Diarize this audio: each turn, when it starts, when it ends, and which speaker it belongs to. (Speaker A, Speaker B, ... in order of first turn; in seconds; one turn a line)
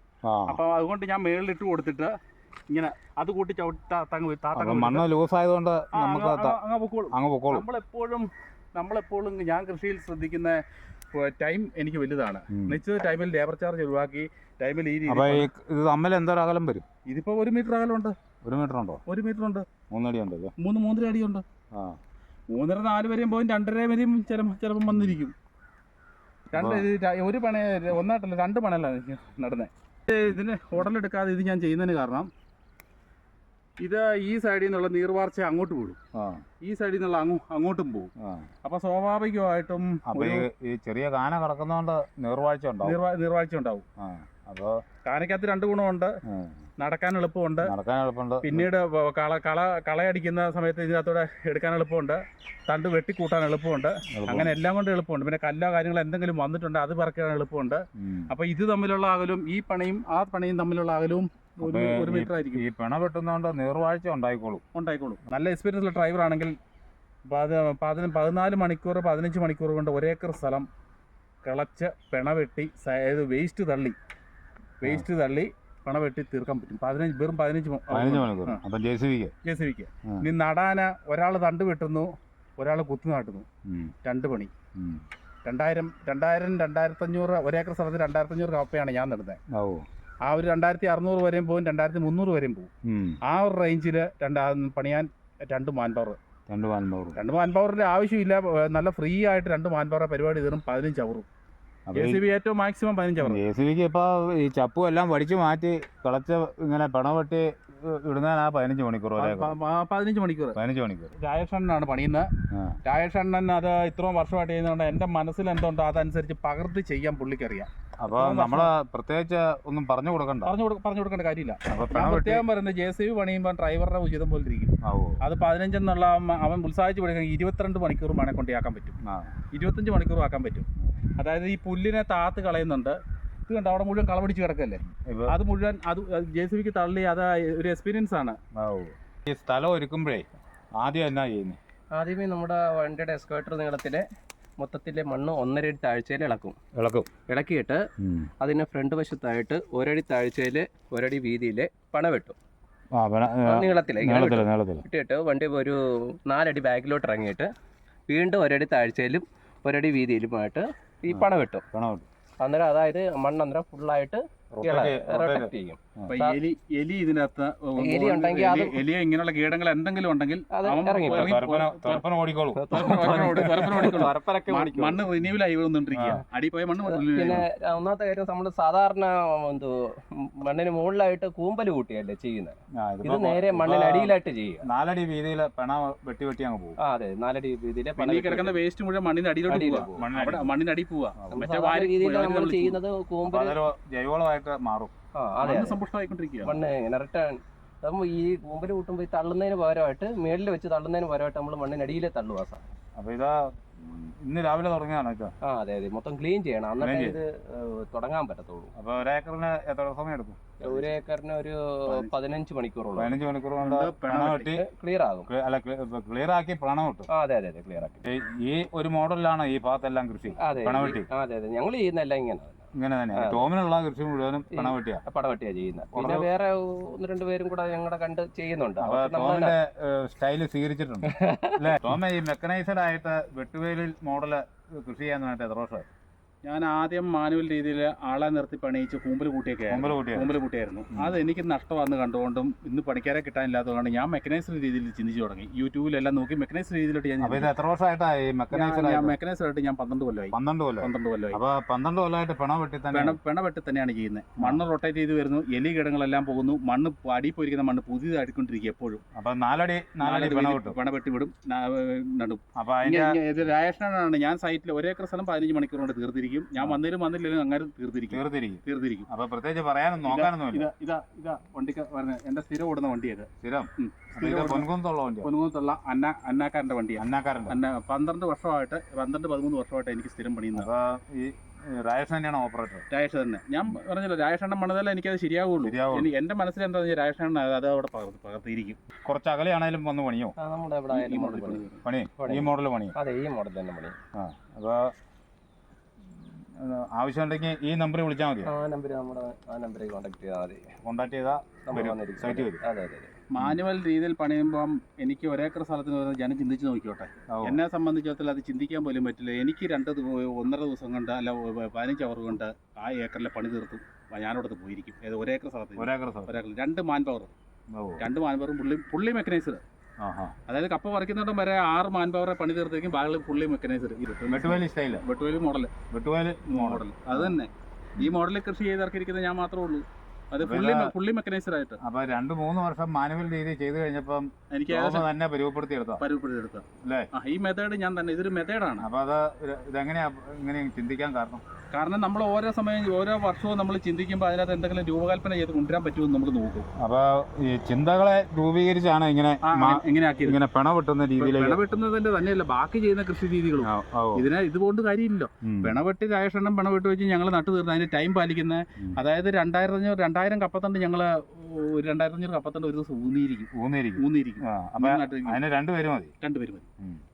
Speaker A: 0.2-0.6
Speaker B: 0.5-2.1
Speaker B: 2.7-5.0
Speaker A: 4.5-6.6
Speaker B: 5.9-10.6
Speaker A: 7.1-7.7
Speaker B: 11.1-15.5
Speaker A: 12.5-12.8
Speaker A: 15.1-16.8
Speaker B: 17.1-18.1
Speaker A: 18.4-19.0
Speaker B: 19.1-19.6
Speaker A: 19.9-20.5
Speaker B: 20.6-21.4
Speaker A: 21.7-22.0
Speaker B: 22.5-25.3
Speaker A: 24.9-25.2
Speaker B: 26.5-32.3
Speaker A: 26.5-26.9
Speaker B: 33.8-36.0
Speaker A: 36.1-36.4
Speaker B: 36.6-38.1
Speaker A: 38.2-38.5
Speaker B: 38.6-40.5
Speaker A: 40.1-43.0
Speaker B: 42.8-43.8
Speaker A: 44.0-44.8
Speaker B: 45.0-46.1
Speaker A: 46.3-46.6
Speaker B: 46.8-47.7
Speaker A: 47.6-48.7
Speaker B: 48.4-62.6
Speaker A: 54.1-54.5
Speaker A: 58.0-58.3
Speaker A: 61.6-64.6
Speaker B: 64.7-66.6
Speaker B: 67.2-70.7
Speaker B: 71.4-74.0
Speaker B: 74.8-78.6
Speaker A: 77.9-79.3
Speaker B: 79.4-83.5
Speaker A: 83.7-83.9
Speaker B: 84.0-84.5
Speaker A: 84.8-85.0
Speaker B: 85.4-89.4
Speaker A: 89.5-89.8
Speaker B: 90.2-92.7
Speaker A: 92.8-93.2
Speaker B: 93.2-96.2
Speaker A: 96.5-97.2
Speaker B: 97.2-101.2
Speaker A: 101.9-102.2
Speaker B: 101.9-103.4
Speaker A: 103.2-109.5
Speaker B: 109.2-110.5
Speaker A: 110.5-111.1
Speaker B: 111.2-112.3
Speaker A: 112.5-112.8
Speaker B: 112.8-118.7
Speaker A: 118.0-120.5
Speaker B: 120.4-128.9
Speaker A: 121.7-122.4
Speaker A: 124.8-125.2
Speaker A: 129.0-129.4
Speaker B: 129.5-130.7
Speaker B: 131.2-138.4
Speaker A: 135.0-135.3
Speaker A: 138.5-140.2
Speaker A: 140.8-141.6
Speaker C: 141.9-144.1
Speaker C: 144.6-146.6
Speaker A: 146.8-147.1
Speaker C: 147.3-147.8
Speaker A: 148.0-148.3
Speaker C: 148.4-152.3
Speaker A: 152.9-154.8
Speaker C: 153.4-157.5
Speaker C: 158.1-161.6
Speaker A: 161.1-162.1
Speaker C: 162.4-166.4
Speaker A: 164.5-166.1
Speaker B: 166.1-172.0
Speaker C: 167.8-168.8
Speaker C: 170.5-171.4
Speaker A: 171.1-172.6
Speaker C: 172.5-175.0
Speaker B: 172.7-177.4
Speaker A: 175.9-176.2
Speaker C: 176.8-184.7
Speaker A: 182.8-186.8
Speaker C: 186.8-188.6
Speaker B: 188.0-192.8
Speaker C: 189.5-189.9
Speaker A: 189.9-190.5
Speaker A: 191.2-191.4
Speaker C: 191.3-193.6
Speaker A: 193.2-194.9
Speaker C: 195.2-195.8
Speaker B: 195.4-196.6
Speaker C: 196.4-202.6
Speaker A: 202.9-205.3
Speaker C: 205.4-208.7
Speaker A: 206.8-207.2
Speaker A: 208.8-210.5
Speaker B: 210.6-210.9
Speaker C: 210.6-213.2
Speaker B: 211.9-212.2
Speaker A: 212.9-214.6
Speaker B: 213.6-214.5
Speaker C: 214.6-215.3
Speaker A: 215.3-217.1
Speaker C: 217.1-218.0
Speaker A: 218.0-221.1
Speaker C: 220.4-222.6
Speaker A: 222.7-225.0
Speaker C: 223.1-223.5
Speaker C: 224.5-229.5
Speaker A: 225.9-226.3
Speaker A: 228.8-235.8
Speaker C: 231.1-231.8
Speaker B: 236.4-247.5
Speaker A: 239.7-240.3
Speaker A: 240.9-241.2
Speaker A: 247.2-249.2
Speaker B: 248.5-251.4
Speaker A: 250.3-253.2
Speaker B: 252.9-259.0
Speaker A: 259.1-260.8
Speaker B: 260.0-269.1
Speaker A: 262.6-263.2
Speaker A: 268.1-270.7
Speaker B: 270.0-274.7
Speaker A: 273.4-275.3
Speaker B: 275.2-280.7
Speaker A: 277.0-277.6
Speaker A: 280.5-282.9
Speaker B: 282.9-288.8
Speaker A: 285.6-286.1
Speaker A: 289.0-290.3
Speaker C: 290.4-291.7
Speaker B: 290.9-291.8
Speaker A: 291.8-292.9
Speaker C: 292.2-293.9
Speaker A: 294.1-294.9
Speaker A: 296.5-298.5
Speaker C: 298.4-300.6
Speaker A: 300.8-302.6
Speaker C: 301.6-303.1
Speaker B: 303.3-317.3
Speaker A: 307.3-307.6
Speaker A: 315.8-316.4
Speaker A: 317.7-318.0
Speaker B: 318.0-319.6
Speaker A: 320.0-320.3
Speaker B: 320.5-325.7
Speaker A: 324.3-325.0
Speaker A: 325.9-327.4
Speaker B: 326.5-331.8
Speaker A: 330.4-330.9
Speaker A: 331.8-336.0
Speaker B: 334.5-335.1
Speaker B: 336.0-338.9
Speaker A: 336.8-337.1
Speaker A: 338.8-341.4
Speaker B: 341.7-346.7
Speaker A: 346.8-351.6
Speaker B: 349.4-350.4
Speaker B: 351.2-365.4
Speaker A: 353.6-354.2
Speaker A: 355.4-355.8
Speaker A: 363.5-366.1
Speaker B: 366.2-366.6